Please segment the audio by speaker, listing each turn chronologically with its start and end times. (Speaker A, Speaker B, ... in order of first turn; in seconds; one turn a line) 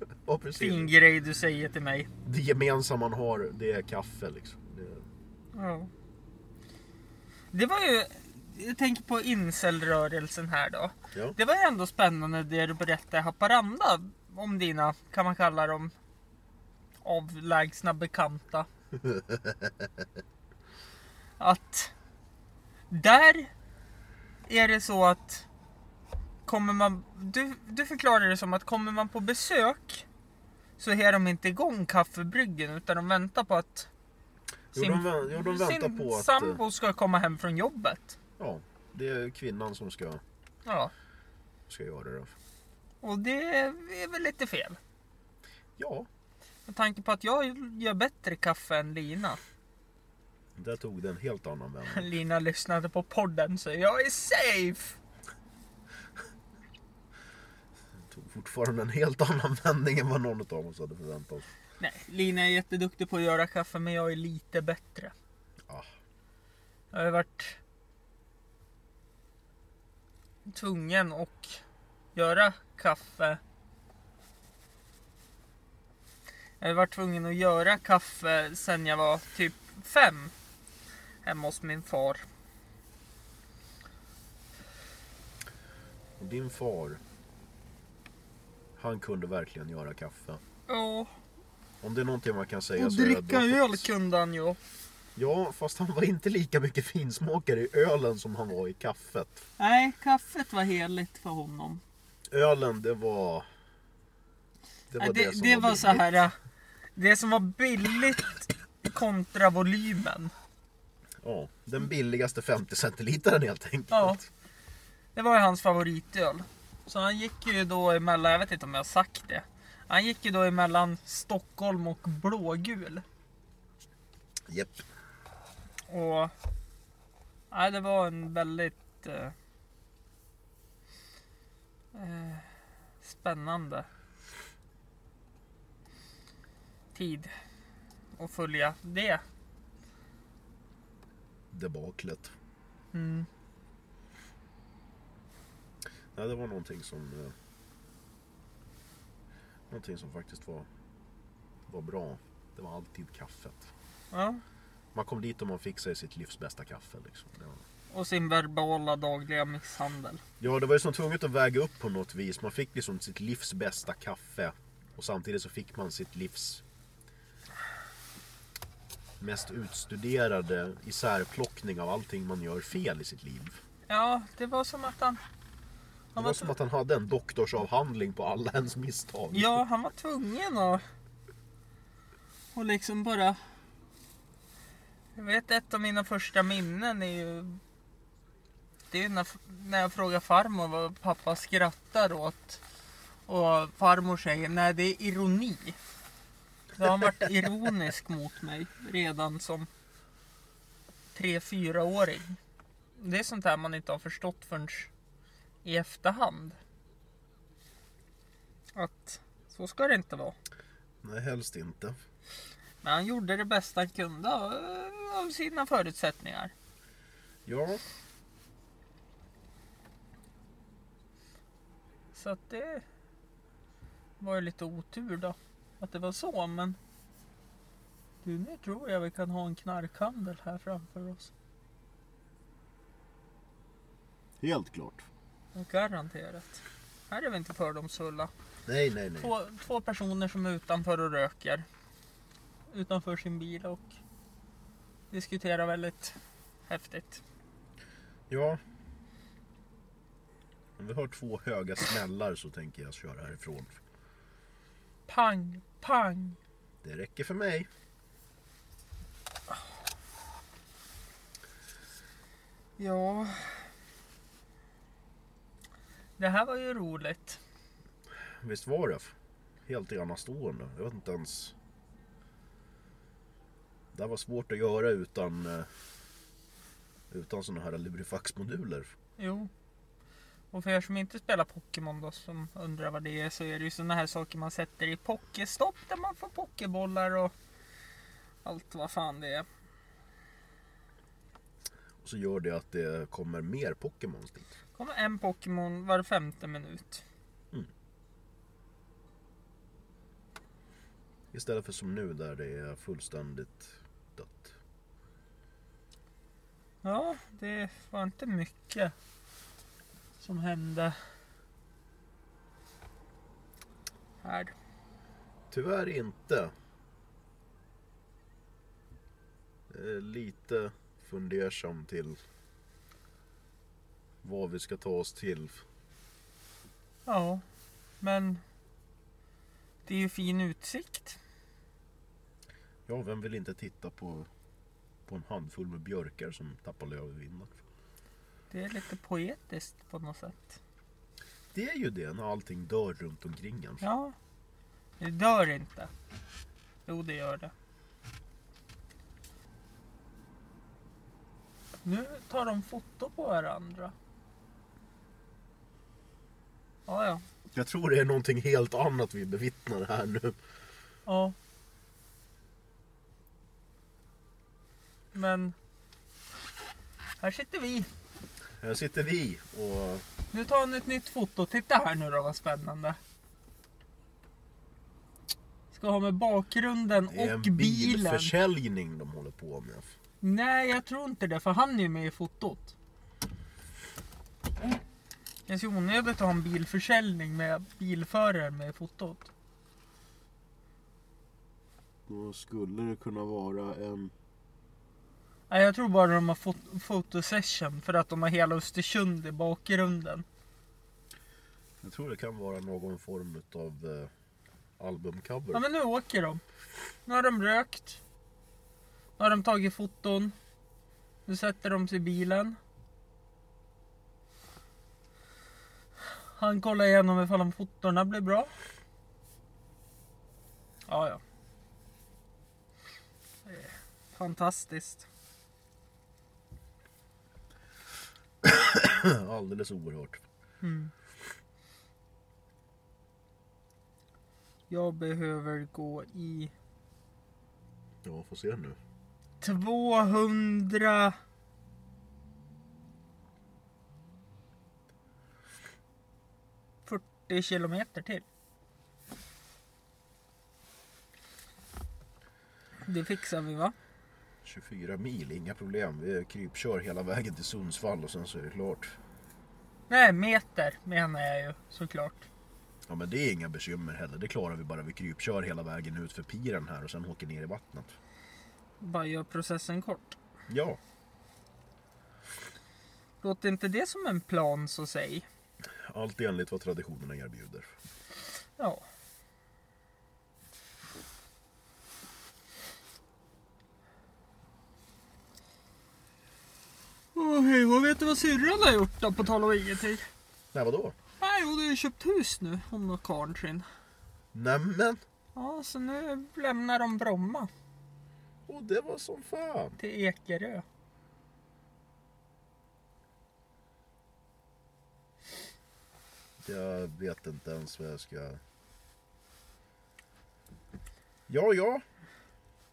Speaker A: 0.3-0.9
Speaker B: 0.6-2.1
Speaker A: 2.2-5.0
Speaker B: 5.5-5.9
Speaker B: 7.5-15.9
Speaker B: 17.0-18.7
Speaker A: 19.0-19.9
Speaker B: 21.4-21.9
Speaker B: 22.9-23.5
Speaker B: 24.5-25.5
Speaker B: 26.4-30.1
Speaker B: 30.8-33.9
Speaker A: 34.7-36.6
Speaker B: 34.7-38.2
Speaker A: 38.4-40.2
Speaker B: 40.6-40.9
Speaker A: 41.7-42.3
Speaker B: 43.0-44.8
Speaker A: 45.8-46.1
Speaker B: 46.7-49.4
Speaker A: 50.6-52.1
Speaker B: 51.9-55.0
Speaker A: 58.0-61.5
Speaker B: 61.8-65.1
Speaker B: 66.9-67.6
Speaker B: 70.5-71.6
Speaker B: 72.1-73.4
Speaker B: 76.6-80.3
Speaker B: 81.2-82.3
Speaker A: 86.2-87.0
Speaker A: 88.8-90.4
Speaker B: 90.7-91.1
Speaker A: 91.8-93.9
Speaker B: 92.8-94.6
Speaker A: 95.2-99.5
Speaker B: 99.6-101.8
Speaker A: 102.3-103.5
Speaker A: 104.9-106.2
Speaker B: 105.0-106.3
Speaker B: 107.0-110.3
Speaker A: 111.2-114.3
Speaker B: 113.9-114.2
Speaker B: 115.2-123.0
Speaker A: 124.5-124.8
Speaker B: 125.9-126.3
Speaker B: 127.5-129.3
Speaker B: 131.9-132.5
Speaker B: 133.0-133.9
Speaker B: 136.9-137.3
Speaker B: 138.2-139.2
Speaker A: 141.5-142.3
Speaker B: 142.9-143.3
Speaker A: 146.1-147.3
Speaker A: 149.7-150.7
Speaker A: 151.7-153.7
Speaker B: 154.1-154.4
Speaker A: 154.9-157.6
Speaker B: 157.9-160.2
Speaker A: 160.4-166.6
Speaker A: 169.2-173.6
Speaker B: 173.9-175.2
Speaker B: 176.2-176.6
Speaker A: 176.2-179.6
Speaker B: 179.3-180.8
Speaker B: 182.5-183.4
Speaker B: 185.2-187.6
Speaker B: 188.9-192.6
Speaker B: 193.3-195.8
Speaker B: 196.8-199.7
Speaker B: 201.1-202.4
Speaker B: 203.0-204.9
Speaker B: 205.6-206.6
Speaker B: 208.8-210.4
Speaker A: 211.0-212.0
Speaker B: 212.8-216.5
Speaker A: 217.5-217.8
Speaker B: 222.1-222.8
Speaker B: 224.2-226.8
Speaker B: 228.2-231.3
Speaker A: 234.4-235.1
Speaker B: 235.6-238.3
Speaker A: 238.7-239.3
Speaker B: 239.2-241.7
Speaker B: 242.7-244.0
Speaker B: 245.1-247.2
Speaker A: 248.3-248.6
Speaker A: 250.8-253.8
Speaker B: 255.1-256.4
Speaker A: 256.8-257.7
Speaker B: 262.8-263.7
Speaker B: 266.2-267.4
Speaker A: 268.4-269.1
Speaker A: 269.7-271.6
Speaker A: 273.9-275.7
Speaker A: 277.1-278.9
Speaker B: 279.2-279.5
Speaker B: 280.5-287.3
Speaker B: 288.4-289.5
Speaker A: 292.0-294.6
Speaker B: 294.8-297.0
Speaker A: 301.3-304.6
Speaker B: 306.8-308.9
Speaker B: 310.2-311.0
Speaker B: 314.2-314.5
Speaker A: 315.5-316.5
Speaker A: 319.7-322.2
Speaker A: 324.2-325.6
Speaker B: 327.1-327.4
Speaker B: 328.0-328.4
Speaker B: 329.9-331.2
Speaker A: 332.9-334.3
Speaker A: 335.1-337.6
Speaker B: 338.5-340.6
Speaker A: 341.5-343.9
Speaker B: 343.8-344.1
Speaker B: 345.0-345.9
Speaker B: 346.9-347.5
Speaker B: 351.8-353.9
Speaker B: 356.9-357.2
Speaker A: 357.5-360.4
Speaker B: 361.1-361.4
Speaker B: 365.1-365.6
Speaker B: 367.2-367.9
Speaker A: 368.6-370.0
Speaker B: 370.3-373.0
Speaker B: 375.7-378.3
Speaker A: 377.1-379.9
Speaker B: 380.2-382.7
Speaker B: 385.5-389.3
Speaker A: 392.1-394.1
Speaker B: 395.5-400.3
Speaker A: 401.8-404.1
Speaker A: 404.8-405.6
Speaker B: 405.5-406.4
Speaker B: 407.1-408.0
Speaker B: 409.2-410.4
Speaker B: 411.3-412.6
Speaker B: 416.1-418.5
Speaker B: 420.9-421.2
Speaker B: 423.5-425.1
Speaker A: 428.4-430.2
Speaker B: 430.6-430.9
Speaker B: 434.7-436.5
Speaker A: 438.0-438.8
Speaker B: 439.4-441.2
Speaker B: 446.9-448.2
Speaker B: 452.9-453.8
Speaker A: 454.4-458.9
Speaker B: 459.9-462.3
Speaker A: 462.9-468.0
Speaker B: 468.8-470.2
Speaker A: 470.5-470.8
Speaker B: 473.2-475.3
Speaker A: 475.9-477.7
Speaker B: 478.6-478.9
Speaker B: 487.1-490.1
Speaker A: 490.5-490.9
Speaker B: 491.2-493.7
Speaker A: 494.3-495.0
Speaker B: 495.4-497.5
Speaker A: 498.5-499.8
Speaker B: 499.8-500.6
Speaker A: 506.4-508.4
Speaker A: 511.3-511.8